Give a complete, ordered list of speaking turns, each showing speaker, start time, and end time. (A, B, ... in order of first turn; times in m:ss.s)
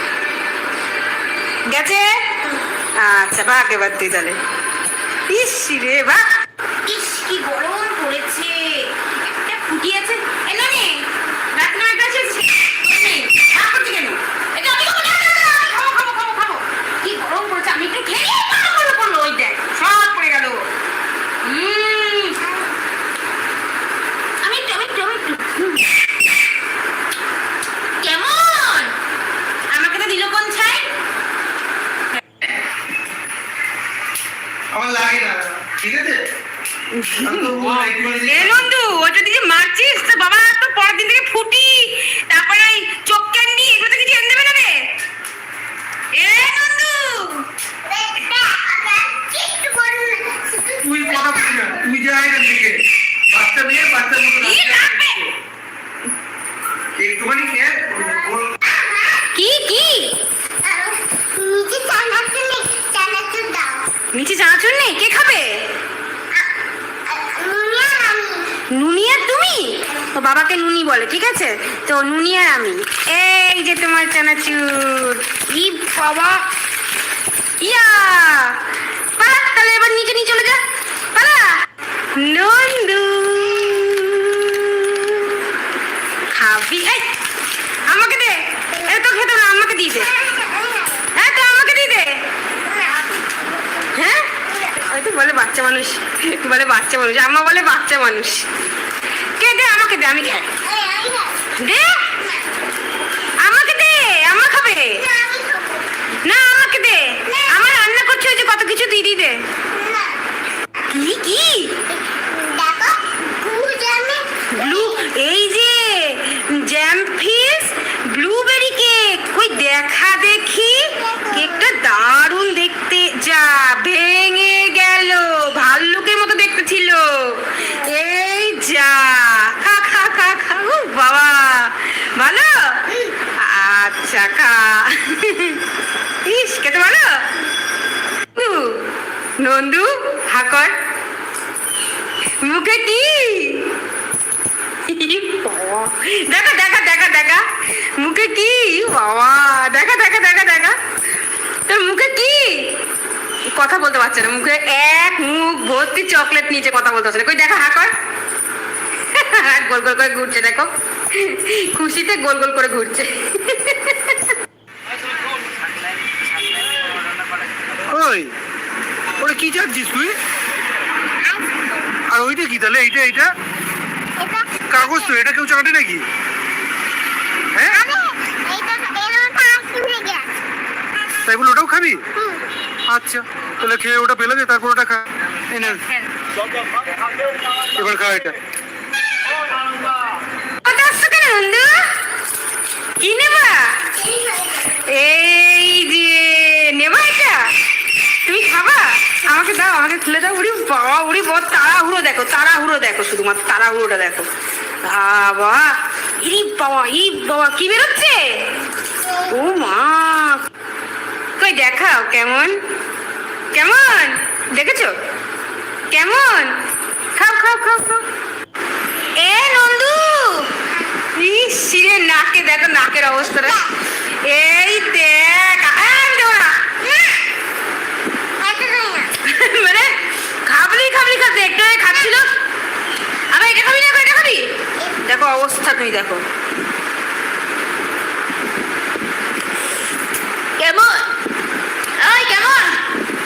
0:01.7-0:02.4 A
0:03.0-0:04.4 A
0:05.3-0:06.3 A
0:06.9-0:20.6 A
0:21.4-0:22.4 A
0:24.4-0:26.0 A
0:28.0-0:28.9 A
0:29.7-0:30.9 A
0:34.7-0:36.2 B
0:36.9-0:44.9 A
0:37.2-0:38.7 B
0:46.1-0:47.5 A
0:47.8-0:51.7 C
0:50.8-0:55.3 B
0:54.4-0:55.3 A
0:57.0-0:58.6 B
0:58.2-0:59.3 C
0:59.4-1:00.2 A
1:00.6-1:03.9 C
1:04.1-1:05.6 A
1:07.1-1:08.6 C
1:08.7-1:16.4 A
1:17.6-1:18.6 A
1:19.2-1:20.6 A
1:21.2-1:21.6 A
1:22.2-1:25.4 A
1:26.3-1:27.1 A
1:27.9-1:30.1 A
1:29.9-1:31.1 C
1:31.2-1:32.2 A
1:32.7-1:33.0 C
1:33.9-1:38.5 A
1:39.4-1:40.5 A
1:40.6-1:41.5 C
1:41.6-1:42.1 A
1:43.4-1:45.0 A
1:45.0-1:45.9 C
1:46.2-1:49.4 A
1:47.3-1:47.6 C
1:49.7-1:50.2 C
1:50.9-1:51.8 A
1:51.9-1:55.1 C
1:54.5-2:15.6 A
2:01.0-2:01.7 C
2:16.2-2:17.3 A
2:18.4-2:18.8 A
2:19.4-2:20.8 A
2:22.4-2:23.7 A
2:24.9-2:27.5 A
2:28.0-2:30.8 A
2:31.7-2:32.7 A
2:33.6-2:37.9 A
2:39.1-2:44.3 A
2:47.9-2:48.3 B
2:49.2-2:50.2 B
2:51.3-2:51.6 C
2:52.1-2:53.3 B
2:54.2-2:55.1 C
2:54.7-2:56.1 B
2:57.5-2:57.8 B
2:57.7-3:00.3 C
3:01.2-3:02.0 B
3:02.2-3:02.4 C
3:02.9-3:05.9 B
3:07.8-3:08.4 B
3:10.6-3:11.9 A
3:13.0-3:13.8 A
3:13.9-3:14.8 C
3:14.9-3:17.5 A
3:18.3-3:24.3 A
3:24.8-3:28.4 A
3:29.0-3:29.3 C
3:29.3-3:30.4 A
3:31.4-3:32.6 A
3:33.5-3:34.9 A
3:35.9-3:36.5 A
3:37.2-3:38.0 A
3:39.2-3:40.5 A
3:41.2-3:43.6 A
3:43.3-3:43.7 C
3:44.2-3:46.8 A
3:48.4-3:49.1 C
3:49.2-3:49.9 A
3:50.5-3:52.3 A
3:53.3-3:54.4 A
3:55.0-3:56.2 A
4:00.6-4:01.0 A
4:02.0-4:02.8 A